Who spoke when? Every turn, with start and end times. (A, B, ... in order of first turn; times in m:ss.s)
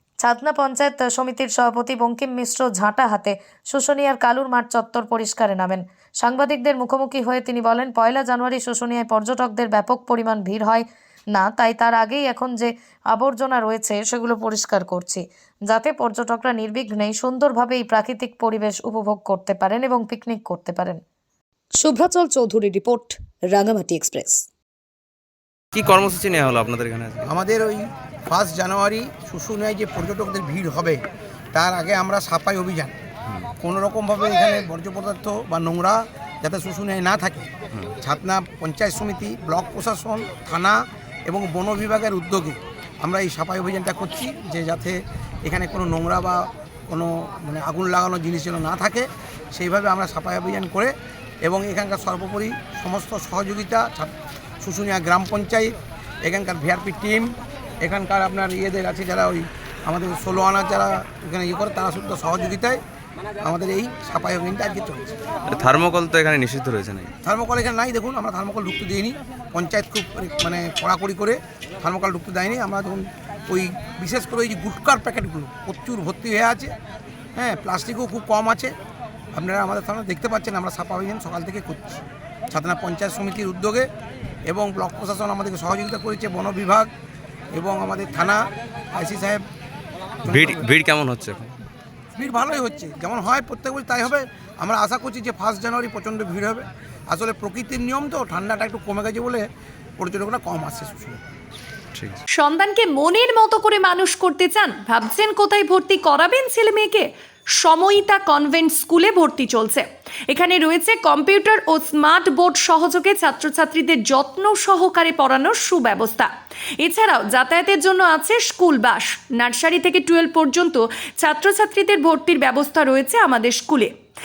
0:00.2-0:21.0 A
0:21.8-0:24.4 A
0:25.7-0:27.3 B
0:27.3-0:31.0 C
0:31.5-0:33.0 C
0:33.6-1:02.8 C
1:03.4-1:05.1 C
1:05.5-1:07.1 B
1:07.2-1:16.8 C
1:17.4-1:18.7 C
1:19.3-1:23.9 C
1:24.5-1:26.9 C
1:27.5-1:29.4 C
1:30.2-1:30.6 C
1:30.3-1:31.5 B
1:32.2-1:39.5 C
1:40.0-1:41.2 C
1:41.9-1:42.2 B
1:42.3-2:03.9 D